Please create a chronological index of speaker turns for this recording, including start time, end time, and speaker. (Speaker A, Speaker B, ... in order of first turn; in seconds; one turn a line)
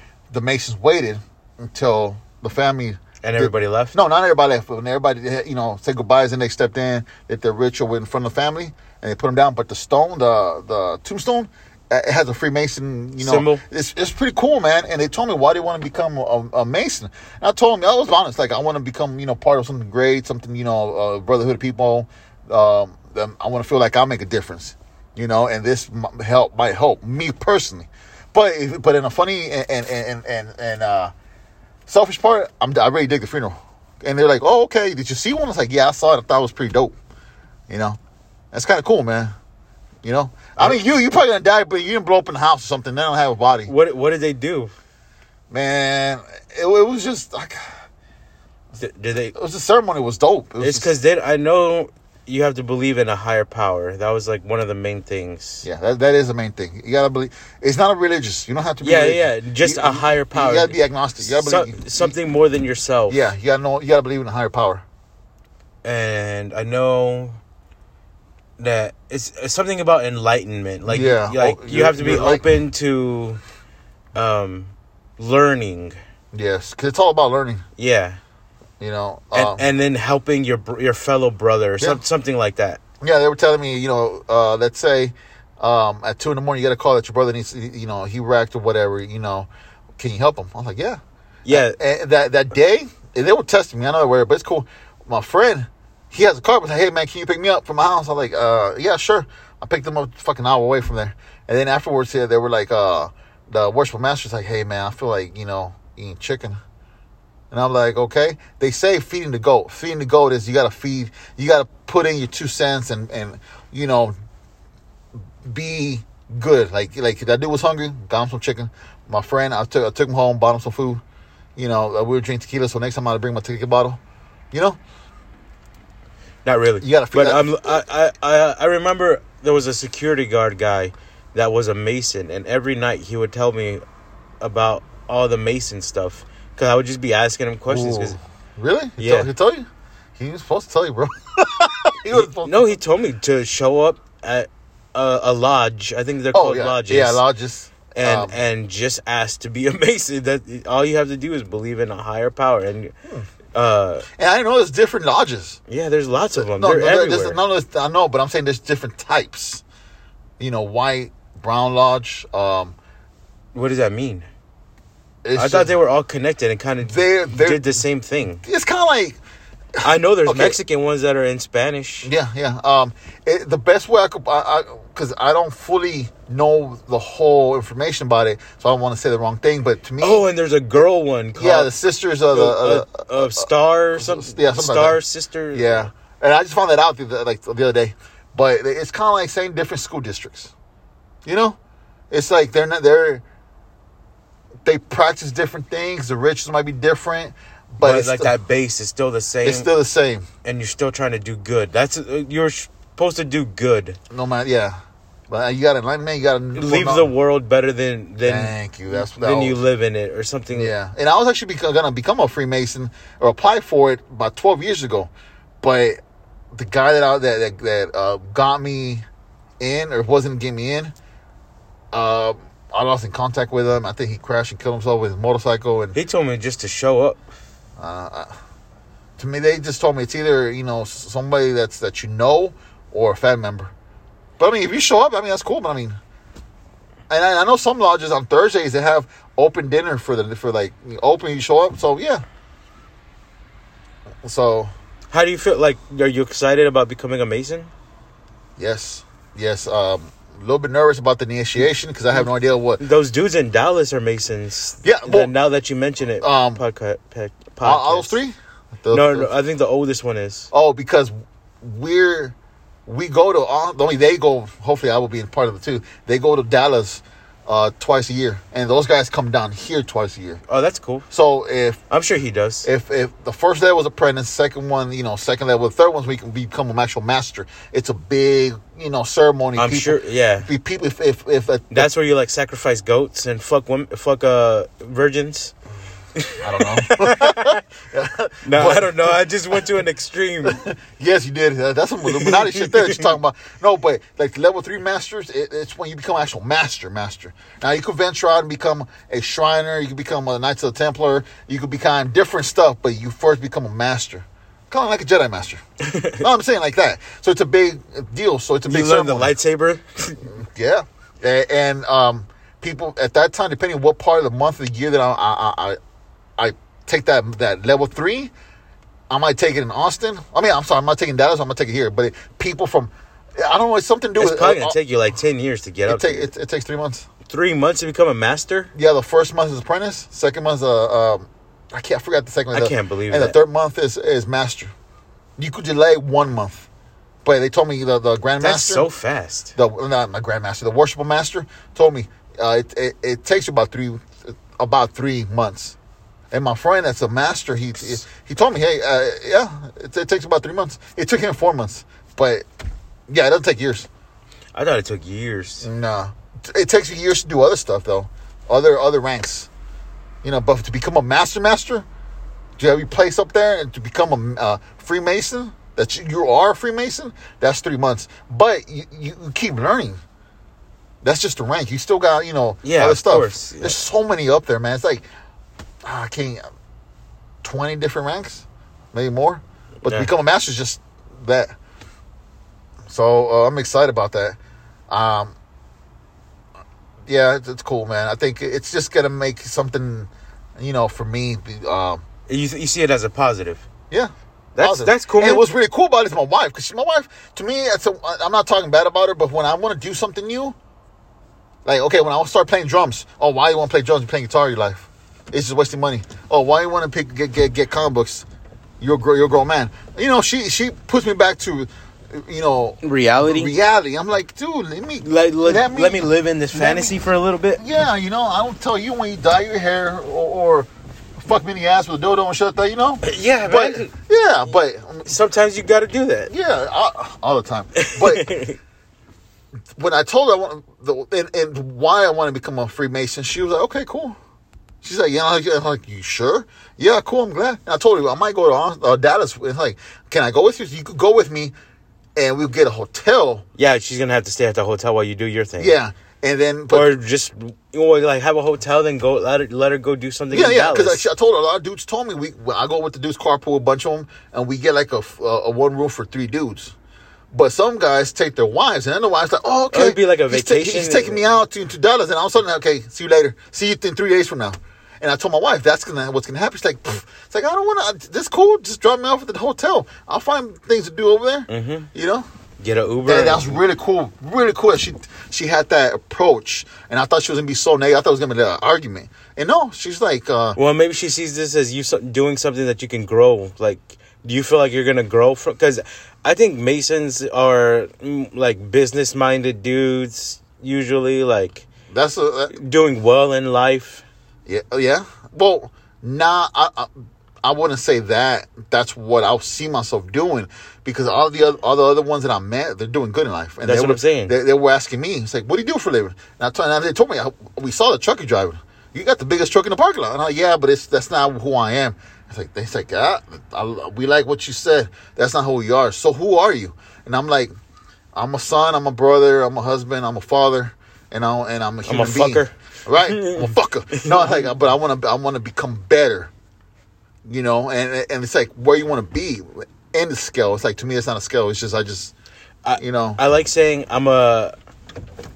Speaker A: 0.3-31.1
Speaker B: 3.2-4.0
Speaker B: 13.2-13.6
Speaker A: 31.9-37.0
Speaker A: 37.7-38.0
Speaker A: 38.5-39.3
Speaker A: 40.0-43.7
Speaker B: 43.7-44.7
Speaker A: 45.5-47.7
Speaker B: 48.8-49.4
Speaker A: 49.3-50.9
Speaker B: 50.6-55.7
Speaker A: 55.6-62.1
Speaker B: 58.8-63.2
Speaker A: 63.1-64.8
Speaker B: 65.8-67.4
Speaker B: 68.6-73.4
Speaker A: 70.9-72.5
Speaker B: 74.1-76.0
Speaker A: 76.3-77.6
Speaker B: 77.8-78.2
Speaker A: 78.8-79.6
Speaker B: 79.3-82.8
Speaker A: 83.0-106.6
Speaker B: 91.5-91.8
Speaker A: 107.5-114.1
Speaker A: 115.4-121.0
Speaker A: 121.6-124.0
Speaker A: 124.5-124.8
Speaker B: 126.5-133.8
Speaker A: 126.8-127.8
Speaker B: 134.4-138.2
Speaker A: 137.7-142.7
Speaker B: 139.0-139.3
Speaker B: 142.1-147.2
Speaker A: 146.3-148.3
Speaker B: 148.0-152.9
Speaker B: 153.6-154.1
Speaker A: 154.1-155.6
Speaker B: 155.7-157.4
Speaker A: 156.3-159.6
Speaker A: 160.4-162.8
Speaker B: 163.5-164.3
Speaker A: 165.2-165.7
Speaker B: 165.4-168.4
Speaker A: 166.8-167.8
Speaker A: 168.4-169.2
Speaker A: 169.8-170.6
Speaker B: 169.8-172.1
Speaker A: 172.0-180.2
Speaker B: 180.0-181.7
Speaker A: 181.4-185.0
Speaker B: 182.3-185.9
Speaker A: 185.5-190.5
Speaker A: 191.2-191.6
Speaker A: 192.1-193.2
Speaker A: 194.6-198.3
Speaker B: 197.8-199.7
Speaker A: 199.4-200.3
Speaker B: 200.4-204.0
Speaker A: 204.1-204.8
Speaker A: 205.3-207.1
Speaker B: 206.5-210.7
Speaker A: 208.2-209.6
Speaker A: 210.5-216.0
Speaker A: 216.5-219.0
Speaker A: 219.6-220.9
Speaker A: 221.9-226.0
Speaker B: 225.9-227.2
Speaker A: 227.8-228.3
Speaker A: 229.2-233.7
Speaker A: 234.4-236.0
Speaker A: 237.1-242.2
Speaker A: 244.2-244.7
Speaker B: 245.1-247.7
Speaker A: 248.6-252.8
Speaker B: 252.8-258.2
Speaker A: 254.8-255.3
Speaker A: 256.2-256.6
Speaker A: 257.6-259.3
Speaker B: 258.9-260.5
Speaker A: 260.5-262.4
Speaker A: 262.9-270.4
Speaker B: 270.5-271.1
Speaker A: 271.1-271.8
Speaker B: 271.9-272.7
Speaker A: 272.6-281.9
Speaker B: 279.6-280.5
Speaker B: 281.7-285.5
Speaker B: 286.2-287.6
Speaker A: 286.4-289.6
Speaker B: 288.4-290.6
Speaker A: 290.4-305.6
Speaker B: 292.0-293.1
Speaker B: 305.8-306.2
Speaker A: 306.1-309.3
Speaker B: 308.7-310.2
Speaker A: 310.3-315.8
Speaker A: 316.4-318.3
Speaker A: 319.1-324.8
Speaker B: 324.2-326.3
Speaker A: 325.9-327.1
Speaker B: 327.3-328.7
Speaker A: 328.8-334.7
Speaker B: 332.5-333.4
Speaker A: 335.4-336.7
Speaker A: 337.2-338.9
Speaker B: 338.4-339.6
Speaker A: 339.6-345.8
Speaker A: 346.3-352.4
Speaker A: 353.1-353.9
Speaker B: 354.5-355.7
Speaker A: 355.6-359.5
Speaker A: 360.2-361.9
Speaker A: 362.6-370.0
Speaker A: 371.0-375.1
Speaker B: 372.6-373.8
Speaker A: 375.8-376.4
Speaker A: 377.4-381.5
Speaker B: 379.9-380.1
Speaker A: 382.9-384.4
Speaker A: 384.9-385.4
Speaker A: 387.1-392.0
Speaker B: 392.3-393.6
Speaker A: 393.9-400.6
Speaker B: 394.6-395.5
Speaker A: 401.6-408.2
Speaker A: 408.8-417.0
Speaker B: 412.8-413.6
Speaker B: 415.0-417.6
Speaker A: 417.6-425.1
Speaker B: 423.0-423.9
Speaker B: 425.1-426.3
Speaker A: 426.3-428.3
Speaker B: 427.8-428.6
Speaker A: 429.7-434.2
Speaker A: 434.8-441.5
Speaker A: 442.2-443.4
Speaker B: 443.6-445.8
Speaker A: 445.6-446.9
Speaker B: 446.7-451.1
Speaker A: 450.3-456.7
Speaker A: 457.3-472.3
Speaker B: 459.7-461.2
Speaker B: 471.5-471.9
Speaker B: 472.6-473.6
Speaker A: 473.1-480.6
Speaker B: 480.6-491.7
Speaker A: 491.9-492.5
Speaker B: 492.5-494.1
Speaker A: 494.5-496.9
Speaker A: 497.4-517.5
Speaker B: 503.6-504.4
Speaker A: 518.1-526.3
Speaker B: 521.9-524.5
Speaker A: 527.3-532.1
Speaker B: 532.6-534.5
Speaker A: 532.8-533.2